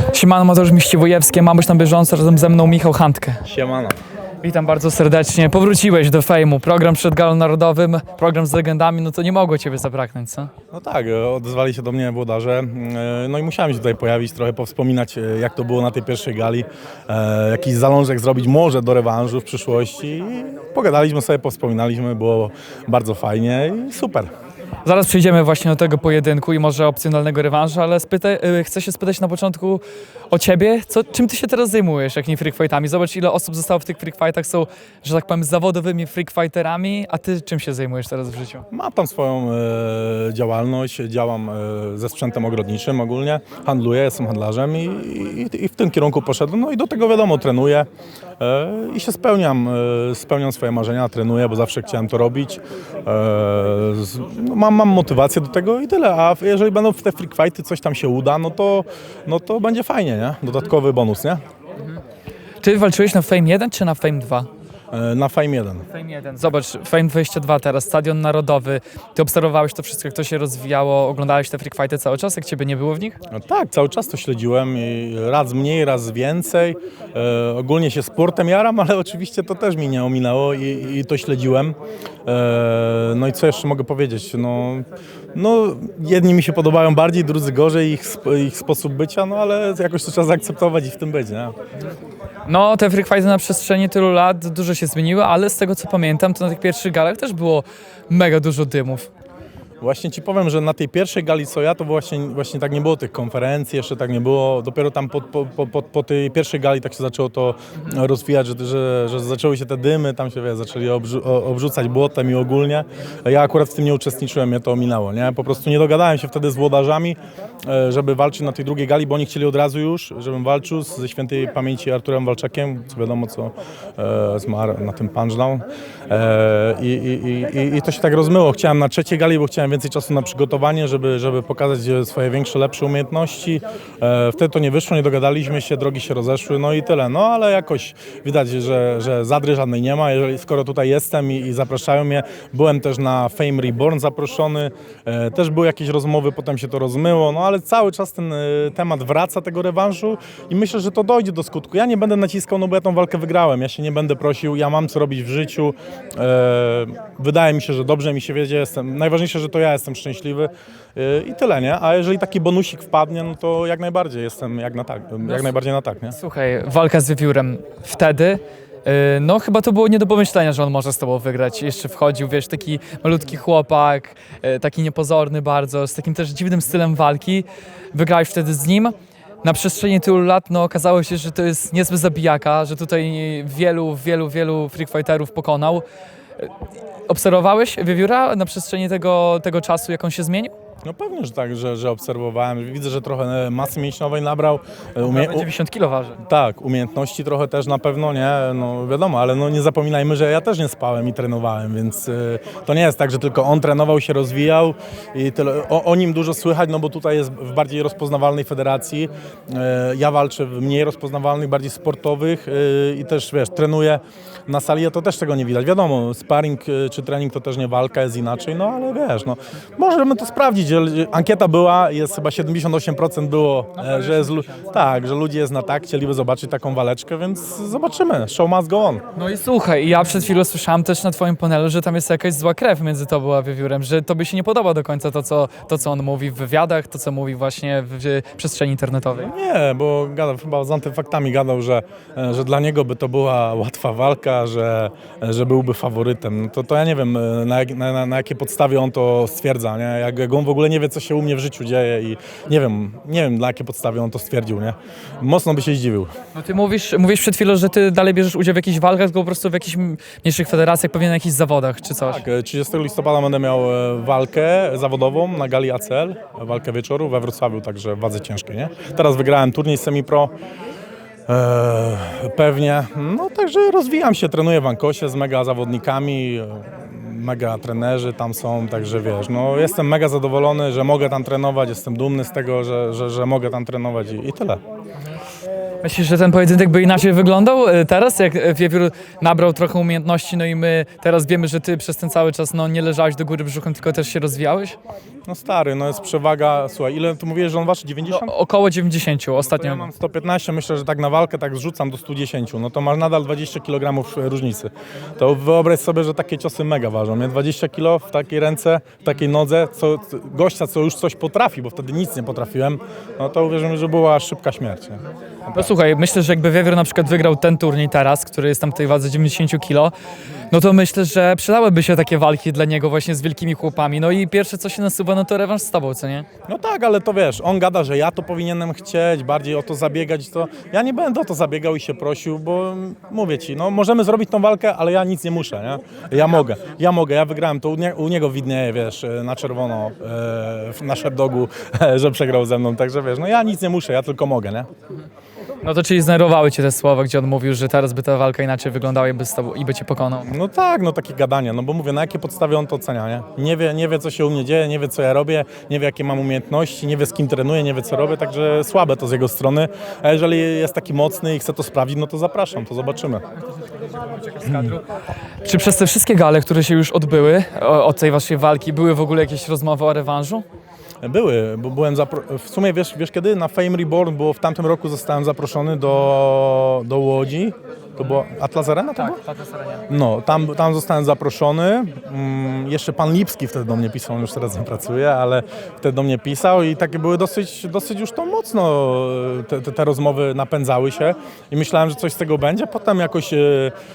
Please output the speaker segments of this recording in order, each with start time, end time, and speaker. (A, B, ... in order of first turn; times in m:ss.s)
0:00.1-0:03.4 A
0:03.4-0:04.0 B
0:04.4-0:10.5 A
0:10.7-0:24.3 B
0:24.8-0:38.6 A
0:38.7-0:47.9 B
0:48.4-1:01.4 B
1:02.6-1:04.5 A
1:04.9-1:05.8 B
1:05.9-1:13.2 A
1:13.3-1:31.5 B
1:32.5-1:39.1 A
1:39.8-2:46.1 B
2:45.2-2:45.5 A
2:46.1-3:05.8 A
3:07.1-3:10.5 A
3:10.8-3:15.5 B
3:15.0-3:16.2 A
3:16.2-3:49.0 B
3:43.8-3:44.7 A
3:49.1-3:59.3 A
3:59.1-4:16.1 B
4:16.3-4:22.2 A
4:22.0-4:30.3 B
4:31.3-4:44.6 B
4:45.8-4:54.8 A
4:55.2-4:58.3 B
4:58.0-4:59.9 A
4:59.4-5:15.7 B
5:15.5-5:19.9 A
5:20.5-5:26.3 A
5:26.5-5:44.7 B
5:45.6-5:50.3 A
5:50.2-6:03.2 B
6:03.9-6:04.8 A
6:05.4-6:10.4 A
6:11.0-6:19.2 B
6:19.0-6:19.8 A
6:19.9-6:33.7 B